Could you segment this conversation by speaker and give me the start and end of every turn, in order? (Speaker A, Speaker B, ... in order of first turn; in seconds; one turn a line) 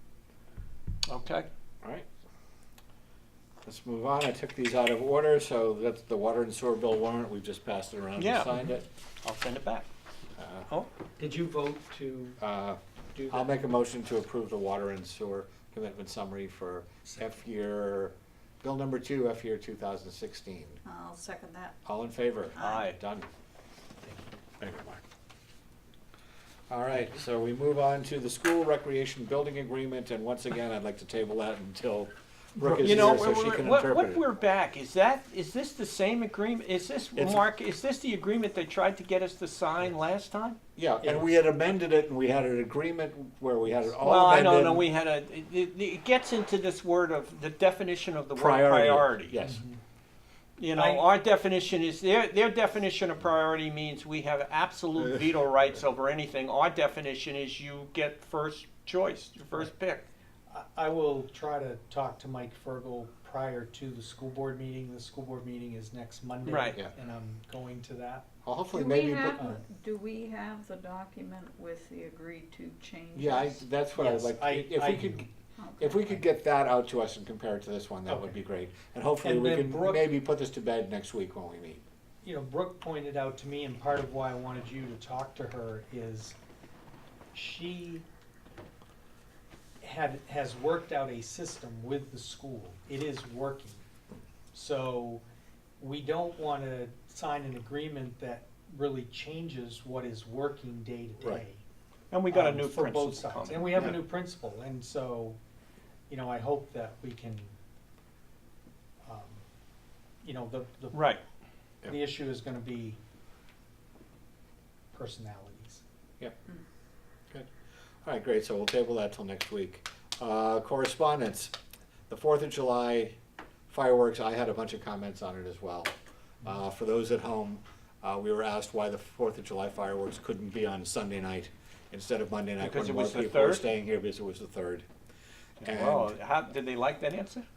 Speaker A: 1.1-1.5
Speaker B: 3.6-8.9
Speaker A: 8.2-8.7
Speaker A: 9.2-9.9
Speaker B: 10.4-10.7
Speaker C: 11.2-12.4
Speaker B: 12.4-20.8
Speaker C: 13.1-13.6
Speaker D: 20.8-21.8
Speaker B: 21.8-23.3
Speaker D: 22.6-22.9
Speaker A: 22.6-23.0
Speaker C: 24.0-24.3
Speaker B: 24.6-25.0
Speaker B: 26.7-34.2
Speaker C: 32.6-33.0
Speaker A: 32.8-40.6
Speaker B: 37.2-37.4
Speaker B: 40.8-44.8
Speaker A: 44.0-49.3
Speaker B: 48.3-49.6
Speaker C: 49.4-49.8
Speaker A: 50.6-60.0
Speaker C: 50.7-51.0
Speaker C: 60.5-68.3
Speaker A: 66.5-66.8
Speaker B: 68.4-69.4
Speaker D: 68.7-73.6
Speaker C: 69.3-69.6
Speaker B: 73.1-81.8
Speaker C: 73.9-75.3
Speaker D: 75.6-76.1
Speaker C: 78.1-78.3
Speaker C: 79.2-80.1
Speaker C: 82.2-86.3
Speaker C: 87.3-88.0
Speaker C: 89.8-93.8
Speaker C: 94.5-95.2
Speaker C: 95.8-101.6
Speaker A: 102.1-104.0
Speaker C: 102.3-105.4
Speaker C: 106.1-107.5
Speaker C: 109.0-109.4
Speaker C: 110.2-111.1
Speaker A: 110.9-111.2
Speaker C: 111.9-113.0
Speaker C: 114.9-115.8
Speaker B: 118.0-121.5
Speaker B: 122.1-123.2
Speaker B: 123.7-134.9
Speaker A: 132.6-133.7
Speaker A: 135.6-137.4
Speaker B: 135.6-136.1